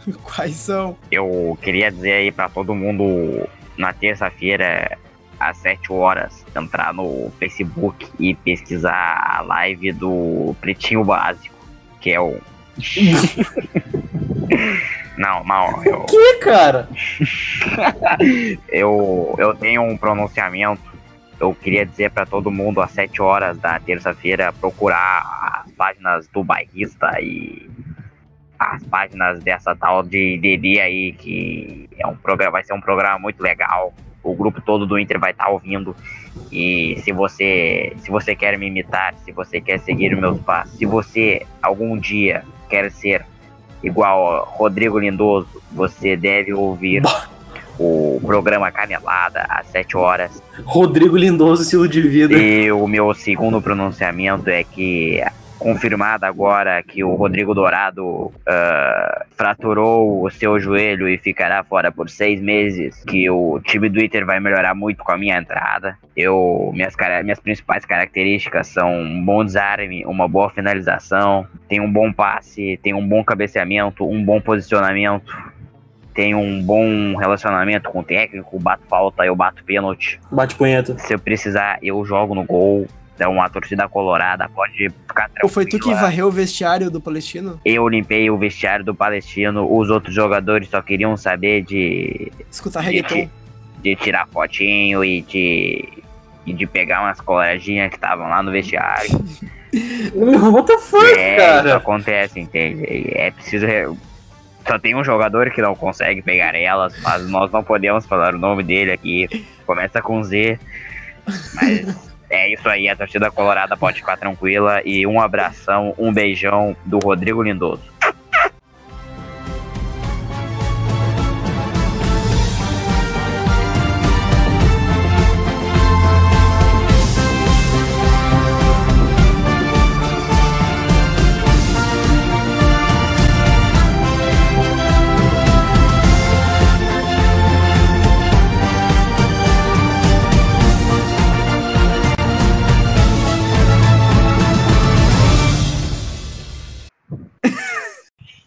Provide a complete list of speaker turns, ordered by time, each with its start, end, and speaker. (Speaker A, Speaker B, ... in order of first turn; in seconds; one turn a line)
Speaker A: 0.1-1.0
Speaker B: 1.1-13.8
Speaker B: 14.5-16.1
Speaker C: 15.9-16.9
Speaker B: 17.2-20.8
Speaker B: 21.4-27.7
Speaker B: 28.6-36.0
Speaker B: 36.5-43.2
Speaker B: 43.8-47.1
Speaker C: 46.9-47.2
Speaker B: 47.8-50.4
Speaker C: 50.7-52.5
Speaker B: 52.3-75.3
Speaker B: 76.1-80.2
Speaker C: 80.3-81.0
Speaker B: 81.0-86.1
Speaker A: 85.4-87.6
Speaker B: 87.6-92.3
Speaker A: 92.5-93.3
Speaker B: 92.8-93.3
Speaker B: 93.8-95.9
Speaker B: 96.5-99.2
Speaker A: 99.8-100.0
Speaker C: 100.1-101.8
Speaker B: 101.0-103.9
Speaker B: 104.6-110.6
Speaker A: 111.4-111.9
Speaker B: 111.5-117.9
Speaker A: 147.4-147.8